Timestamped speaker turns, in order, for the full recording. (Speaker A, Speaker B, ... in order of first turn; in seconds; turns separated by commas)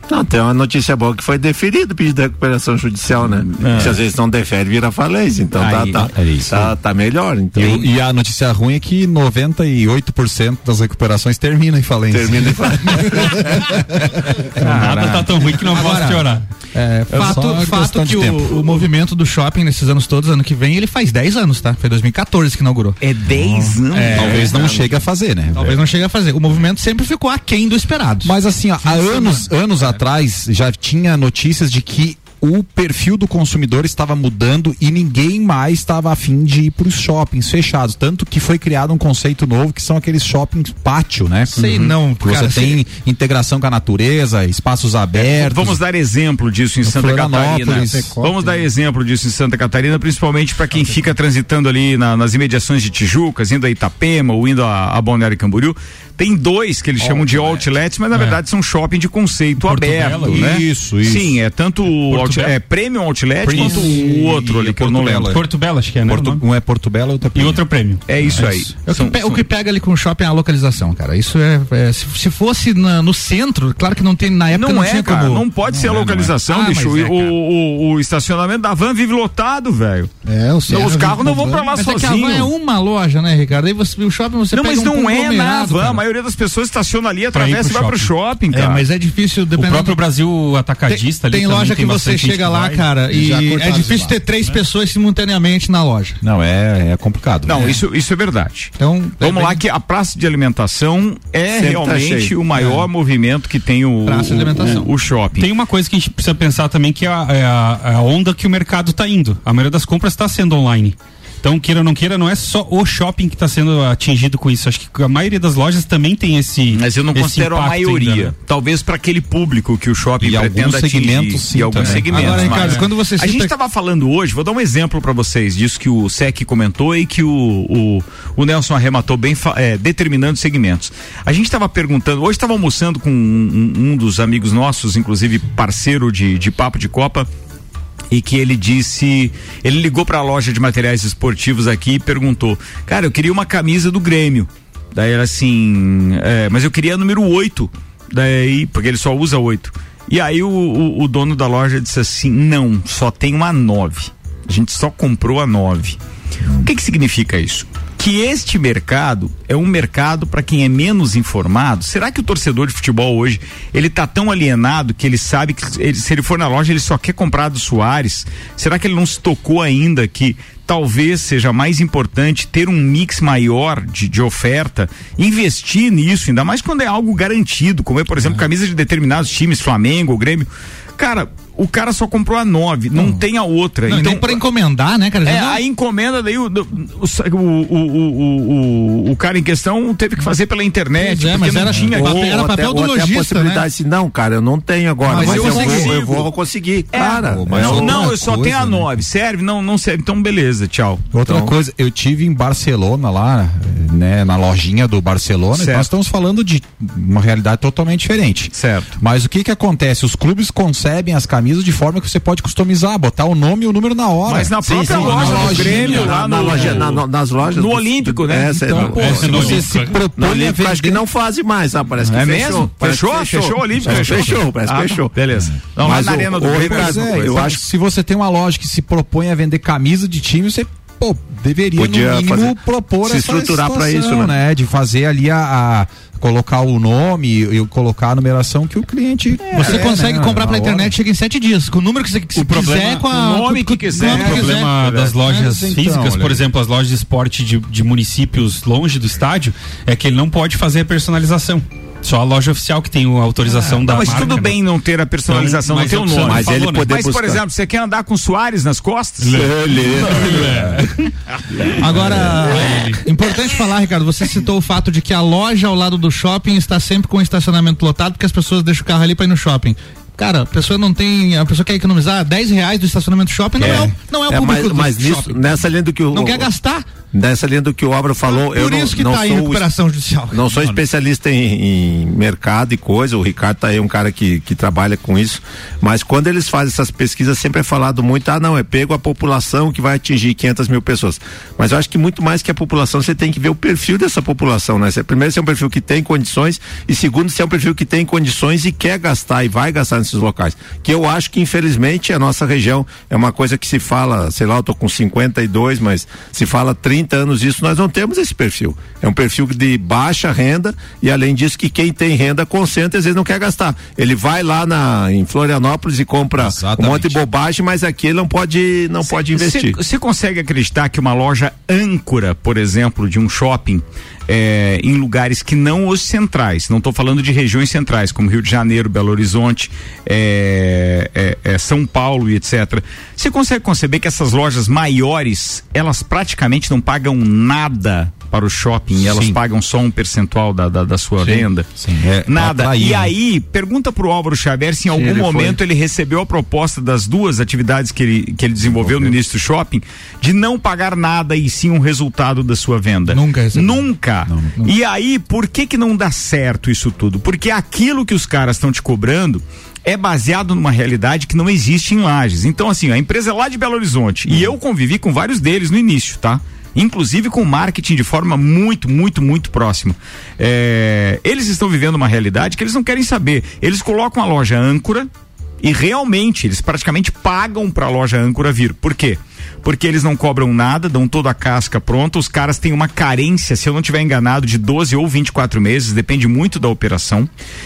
Speaker A: 0.1-7.9, Speaker B: 3.5-4.0, Speaker B: 5.6-6.1, Speaker C: 5.9-6.7, Speaker C: 7.5-15.0, Speaker A: 12.1-13.6, Speaker D: 14.6-24.5, Speaker B: 14.7-15.1, Speaker E: 14.7-16.4, Speaker C: 17.1-18.9, Speaker B: 23.0-24.6, Speaker C: 24.1-25.8, Speaker A: 24.1-25.0, Speaker D: 25.5-29.5, Speaker C: 28.2-45.8, Speaker D: 41.5-42.8, Speaker B: 45.1-65.3, Speaker C: 46.8-48.1, Speaker F: 47.7-48.6, Speaker C: 57.0-57.7, Speaker E: 58.1-58.4, Speaker E: 59.6-60.5, Speaker C: 60.2-61.4, Speaker E: 62.0-62.5, Speaker C: 63.4-65.4, Speaker E: 65.2-66.4, Speaker C: 66.0-67.6, Speaker E: 67.3-68.4, Speaker B: 68.1-69.4, Speaker C: 68.2-68.5, Speaker D: 68.8-75.5, Speaker B: 74.5-80.1, Speaker C: 75.7-76.3, Speaker D: 76.4-77.3, Speaker F: 80.2-81.7, Speaker B: 80.7-82.5, Speaker D: 81.7-86.0, Speaker B: 84.5-88.8, Speaker D: 87.3-90.0, Speaker E: 89.5-93.0, Speaker D: 90.9-96.2, Speaker F: 93.1-94.2, Speaker C: 96.2-97.8, Speaker B: 97.5-105.5, Speaker D: 98.8-99.6, Speaker A: 101.5-102.3, Speaker D: 102.5-102.8, Speaker D: 104.0-104.9, Speaker E: 105.4-118.3, Speaker B: 116.7-137.3, Speaker C: 120.2-122.8, Speaker D: 121.8-123.5, Speaker B: 138.1-156.0, Speaker B: 156.6-184.4, Speaker D: 182.9-183.2, Speaker D: 183.9-185.6, Speaker B: 185.2-192.4, Speaker D: 190.9-193.6, Speaker A: 191.9-198.1, Speaker D: 195.1-195.9, Speaker B: 195.1-196.3, Speaker C: 195.2-195.6, Speaker B: 196.9-201.1, Speaker C: 197.0-198.9, Speaker C: 201.1-216.9, Speaker A: 201.2-201.5, Speaker B: 205.5-205.9, Speaker B: 208.5-209.0, Speaker B: 214.3-219.3, Speaker A: 214.7-225.1, Speaker C: 218.7-221.0, Speaker E: 218.9-220.1, Speaker B: 222.0-227.5, Speaker C: 223.9-224.2, Speaker C: 225.5-240.9, Speaker A: 225.8-227.6, Speaker A: 231.8-234.3, Speaker B: 239.4-239.9, Speaker D: 239.5-244.7, Speaker B: 242.4-245.1, Speaker E: 244.0-254.6, Speaker C: 244.1-244.4, Speaker C: 245.2-246.4, Speaker B: 253.8-260.6, Speaker E: 255.3-256.9, Speaker A: 256.2-257.4, Speaker A: 259.2-260.6, Speaker E: 260.0-260.9, Speaker D: 261.8-276.9, Speaker E: 262.0-263.0, Speaker C: 273.6-273.9, Speaker A: 273.6-276.5, Speaker A: 277.1-279.7, Speaker D: 278.2-280.4, Speaker A: 280.3-319.8, Speaker C: 280.5-280.8, Speaker C: 316.4-317.2, Speaker B: 319.0-341.6, Speaker C: 339.0-339.4, Speaker C: 341.2-343.1, Speaker B: 342.2-375.1, Speaker A: 344.9-345.6, Speaker C: 348.6-349.2, Speaker D: 353.1-353.9, Speaker C: 354.3-354.6, Speaker B: 375.6-387.3